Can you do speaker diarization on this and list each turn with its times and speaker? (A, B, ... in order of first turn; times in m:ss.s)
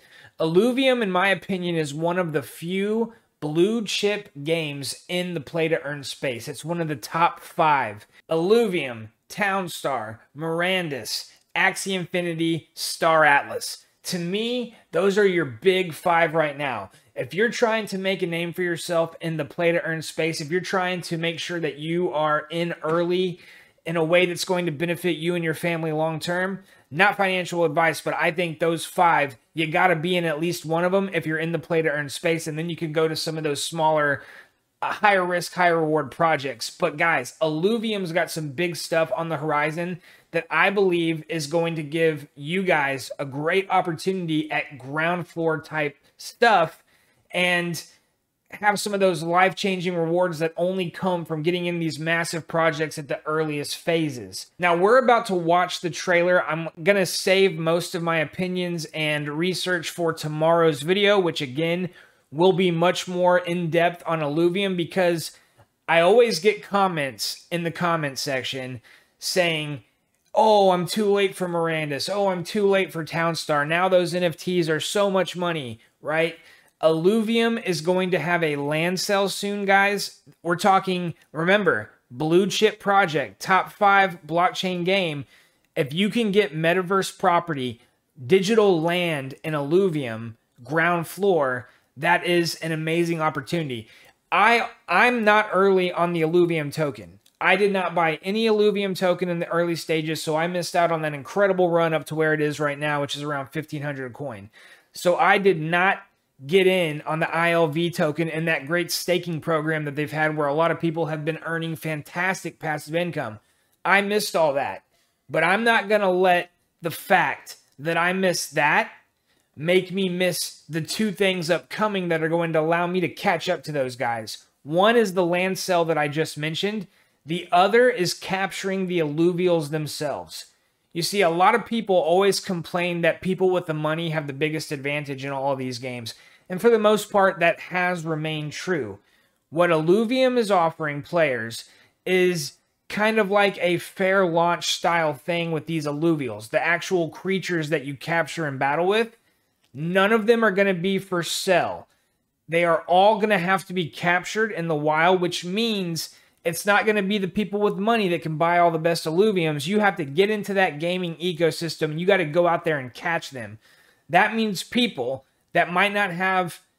0:00.4-0:34.2 A
0:34.8-0:47.8 A
0:48.5-1:05.3 A
1:05.9-1:09.8 A
1:10.4-1:58.9 A
1:59.6-2:29.2 A
2:29.7-2:31.9 A
2:32.5-2:46.6 A